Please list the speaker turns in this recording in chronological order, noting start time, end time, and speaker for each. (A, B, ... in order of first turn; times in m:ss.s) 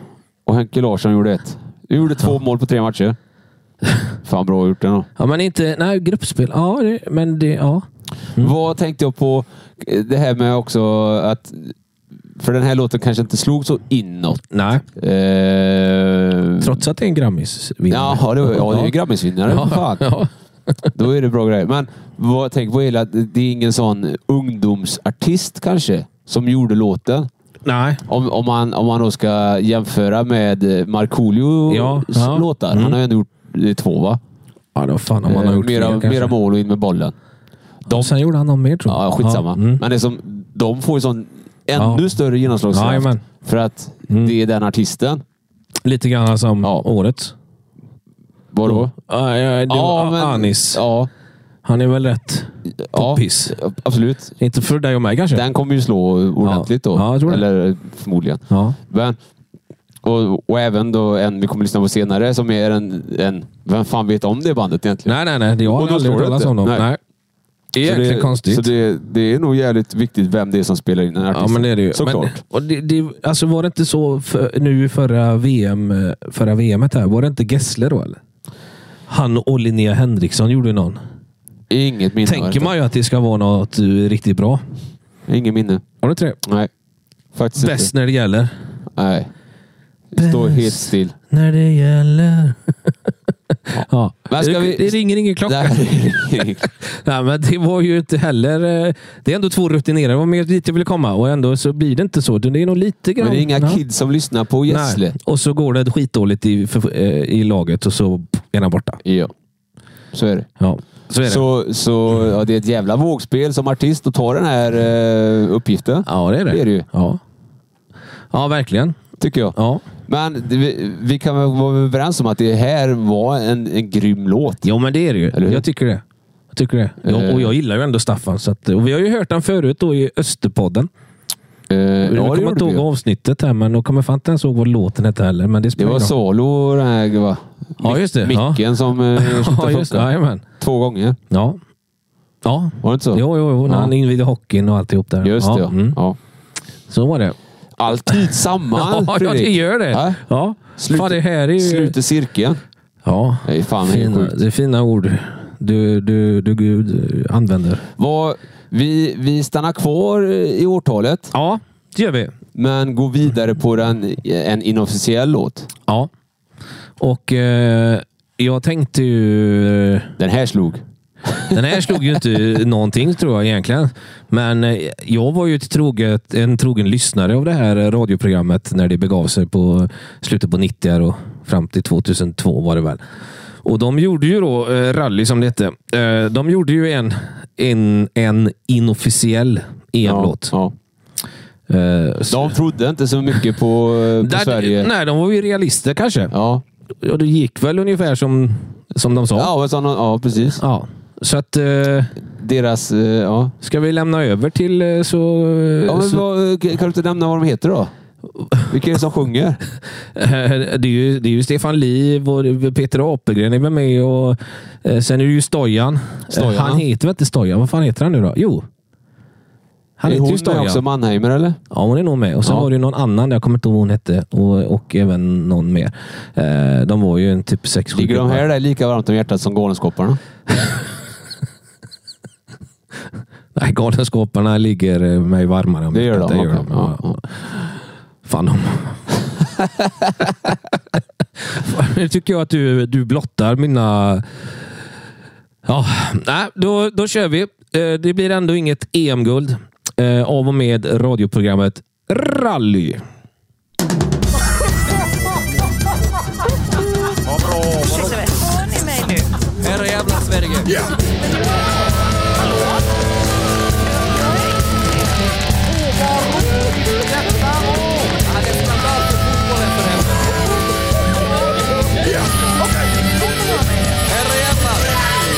0:00.4-0:03.2 A
0:04.2-0:05.1 A
0:05.2-0:07.8 B
0:08.4-0:11.7 A
0:12.4-0:14.4 A
0:14.5-0:14.8 B
0:15.0-0:16.7 A
0:16.6-0:20.3 B
0:17.9-0:20.0 A
0:20.9-0:27.3 A
0:27.6-0:28.0 B
0:28.1-0:34.2 A
0:31.7-0:33.0 B
0:34.7-0:36.3 B
0:35.2-0:37.1 A
0:37.9-0:38.1 A
0:37.9-0:39.8 B
0:38.9-0:45.2 A
0:41.8-0:42.0 B
0:42.7-0:43.2 B
0:45.8-0:47.3 B
0:48.5-0:48.9 A
0:48.6-0:50.8 B
0:49.7-0:51.1 A
0:51.6-0:53.6 B
0:52.9-0:54.4 A
0:54.4-0:55.4 B
0:55.3-0:59.2 A
0:56.4-0:57.4 B
0:58.5-0:58.8 B
1:00.0-1:06.8 A
1:05.0-1:07.0 B
1:07.7-1:12.4 A
1:07.8-1:08.7 B
1:11.3-1:18.2 B
1:19.1-1:21.0 B
1:21.7-1:22.7 A
1:22.2-1:24.6 B
1:25.3-1:25.8 A
1:26.0-1:26.4 B
1:26.4-1:26.7 A
1:27.3-1:27.9 A
1:27.6-1:28.5 B
1:28.9-1:29.3 A
1:30.1-1:31.1 A
1:30.2-1:32.9 B
1:33.7-1:43.8 B
1:33.7-1:36.7 A
1:43.2-1:45.1 A
1:44.7-1:49.0 B
1:49.0-1:49.3 A
1:50.1-1:50.5 A
1:50.6-1:51.4 B
1:51.2-1:56.8 A
1:56.0-1:57.2 B
1:58.3-1:59.0 B
1:59.2-1:59.6 A
1:59.5-1:59.8 B
2:00.1-2:04.7 A
2:04.6-2:10.9 B
2:05.3-2:05.6 A
2:07.0-2:07.5 A
2:11.7-2:12.8 A
2:12.0-2:16.1 B
2:15.8-2:20.1 A
2:17.8-2:20.4 B
2:20.6-2:21.2 A
2:21.3-2:21.6 B
2:22.4-2:26.0 B
2:22.8-2:23.9 A
2:25.2-2:26.2 A
2:26.9-2:27.4 B
2:27.8-2:30.2 A
2:28.7-2:32.0 B
2:30.8-2:32.6 A
2:33.0-2:37.8 B
2:33.4-2:34.4 A
2:38.0-2:41.3 A
2:41.3-2:42.3 B
2:42.5-2:45.7 A
2:47.0-2:50.1 B
2:50.2-2:50.8 A
2:51.5-3:03.0 B
3:03.6-3:10.5 B
3:10.0-3:10.7 A
3:11.7-3:12.5 B
3:12.3-3:14.9 A
3:14.2-3:16.3 B
3:16.3-3:16.6 A
3:17.0-3:19.5 B
3:19.3-3:20.6 A
3:20.6-3:22.1 B
3:22.2-3:23.5 A
3:23.6-3:26.2 B
3:25.8-3:27.9 A
3:28.7-3:29.6 A
3:30.1-3:38.6 B
3:36.3-3:36.8 A
3:40.0-3:40.8 B
3:40.0-3:41.6 A
3:41.7-3:48.4 B
3:47.9-3:50.2 A
3:53.5-3:57.2 B
3:55.9-3:57.2 A
3:58.2-3:59.0 B
4:01.5-4:04.3 B
4:05.6-4:13.0 B
4:17.7-4:19.3 C
4:24.1-4:24.9 C
4:33.3-4:34.1 C